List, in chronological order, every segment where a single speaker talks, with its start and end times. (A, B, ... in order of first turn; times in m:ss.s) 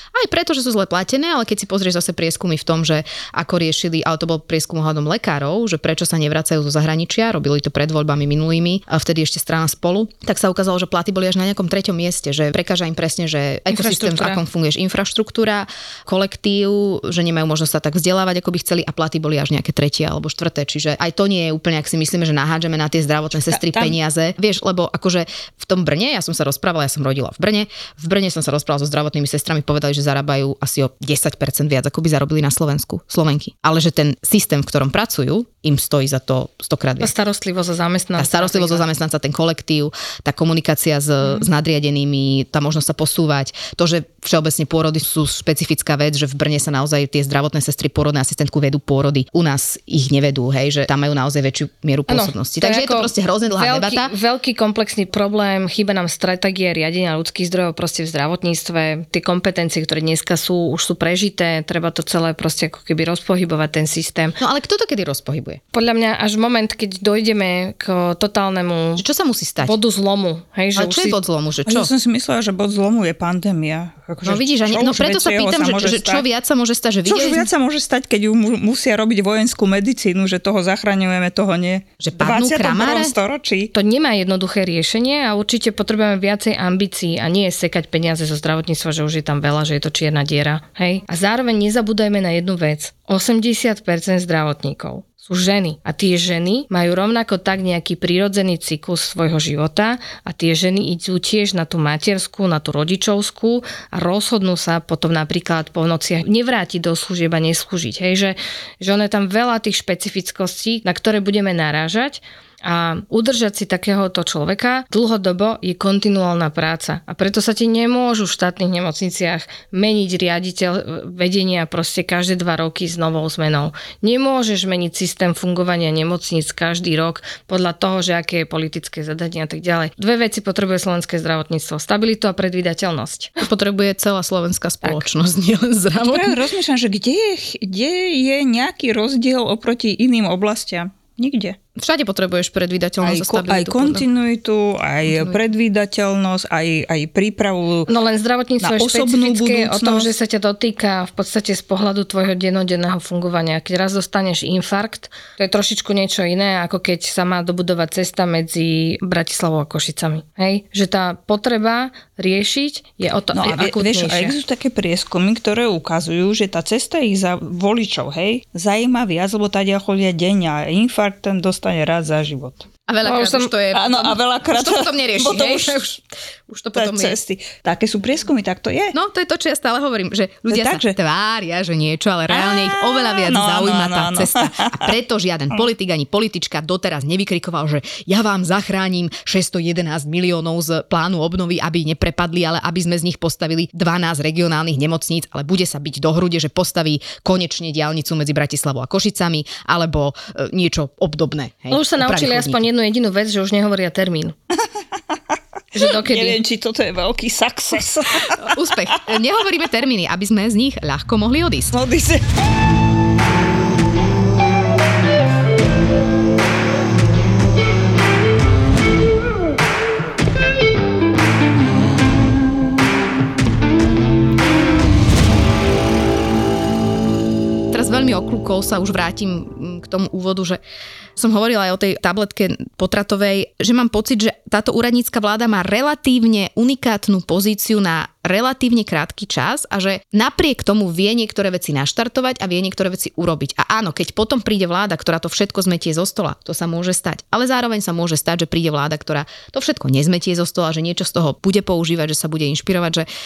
0:00.1-0:37.1 A
0:13.7-0:14.4 B
0:23.5-0:23.9 C
0:37.0-0:38.9 B
0:38.2-0:54.1 A
0:52.1-1:04.4 B
1:04.4-1:05.6 A
1:05.7-1:09.0 B
1:09.0-1:09.8 A
1:09.6-1:11.2 B
1:10.7-1:11.9 A
1:11.6-1:16.2 C
1:14.2-1:17.5 A
1:17.1-1:23.7 C
1:22.0-1:23.1 A
1:23.7-2:13.3 B
2:13.4-2:16.4 A
2:16.0-2:21.6 C
2:21.8-2:24.1 A
2:23.0-2:27.9 C
2:25.1-2:25.4 A
2:27.9-2:44.4 B
2:28.6-2:30.1 C
2:43.4-2:52.7 C
2:52.9-2:57.2 A
2:53.0-2:53.5 B
2:53.7-2:55.8 C
2:56.7-2:59.0 C
2:58.9-3:22.6 A
3:00.5-3:00.9 C
3:02.3-3:04.9 C
3:21.7-3:24.3 B
3:25.7-3:26.4 B
3:25.8-3:28.5 C
3:28.3-3:31.8 A
3:31.7-3:32.2 C
3:47.7-3:50.6 A
3:51.2-4:13.1 A